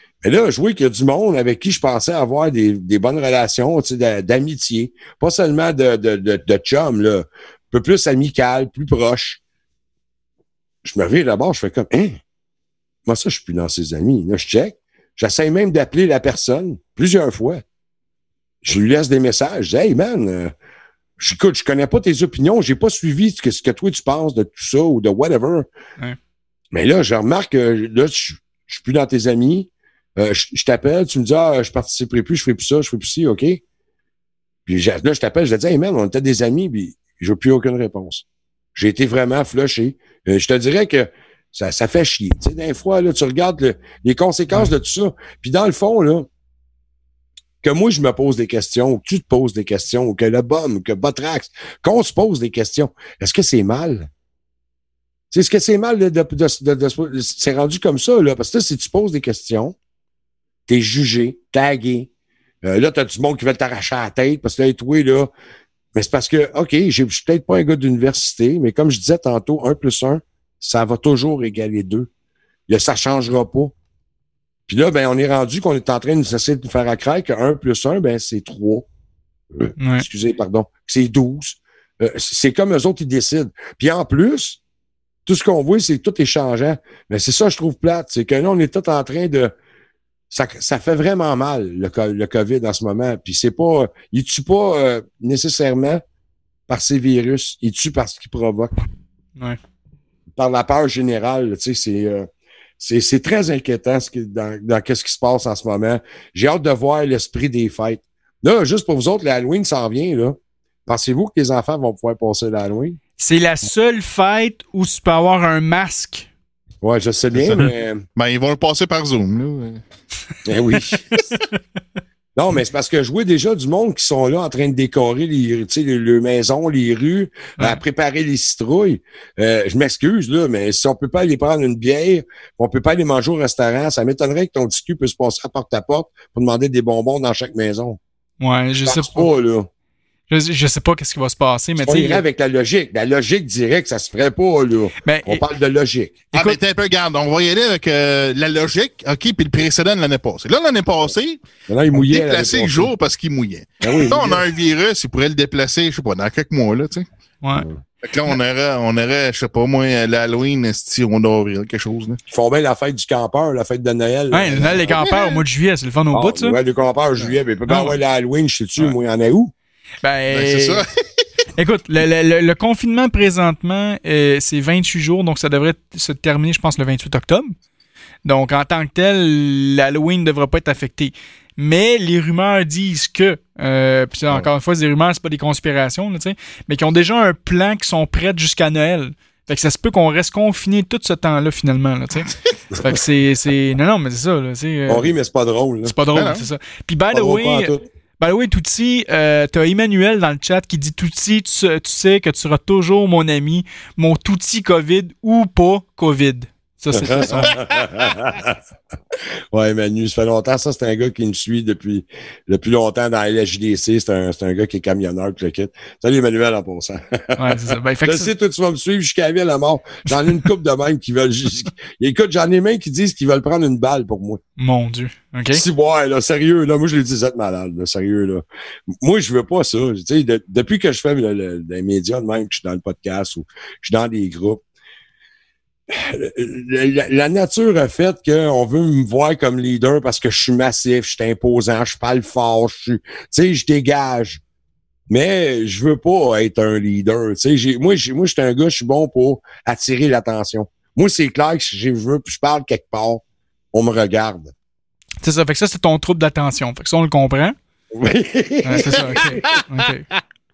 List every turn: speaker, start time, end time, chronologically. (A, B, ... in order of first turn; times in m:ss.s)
0:00.2-0:09.4 A
0:10.8-0:12.2 A
0:13.0-0:17.6 A
0:18.6-0:20.5 A
0:21.2-0:25.7 A
0:26.7-0:33.6 A
0:34.7-0:46.3 A
0:47.6-0:54.1 A
0:55.3-0:59.8 A
1:00.7-1:02.1 A
1:02.6-1:05.3 A
1:06.0-1:12.1 A
1:12.7-1:13.7 A
1:14.7-1:18.9 A
1:19.5-1:24.6 A
1:19.8-1:20.0 B
1:25.3-1:29.5 A
1:30.3-1:36.0 A
1:36.7-1:38.7 A
1:40.4-1:42.3 A
1:42.8-1:53.0 A
1:53.2-1:56.3 B
1:56.8-1:58.0 A
1:57.3-1:59.8 C
2:00.5-2:01.0 A
2:02.4-2:18.0 A
2:18.4-2:19.3 B
2:18.8-2:19.7 A
2:20.3-2:22.2 B
2:21.8-2:26.2 A
2:25.0-2:25.4 B
2:26.3-2:26.6 B
2:26.3-2:31.4 C
2:31.7-2:32.9 A
2:31.9-2:37.0 C
2:33.8-2:34.4 A
2:37.5-2:37.8 A
2:38.0-2:42.2 C
2:42.3-2:44.9 A
2:44.3-2:46.6 B
2:44.9-2:45.4 C
2:46.1-2:49.5 A
2:47.7-2:48.0 B
2:50.0-2:50.8 B
2:50.3-2:50.8 C
2:51.6-2:57.5 B
2:58.2-3:15.1 B
3:14.9-3:15.9 A
3:15.8-3:27.6 B
3:16.1-3:16.4 C
3:17.1-3:17.8 A
3:26.9-3:28.6 A
3:29.5-3:44.4 A
3:37.4-3:38.3 B
3:44.6-3:45.6 B
3:45.5-3:48.4 A
3:49.0-3:54.6 A
3:55.9-4:04.4 A
4:05.1-4:13.2 A
4:13.7-4:14.5 A
4:15.2-4:17.6 B
4:17.9-4:19.6 A
4:18.6-4:20.0 B
4:19.0-4:19.4 C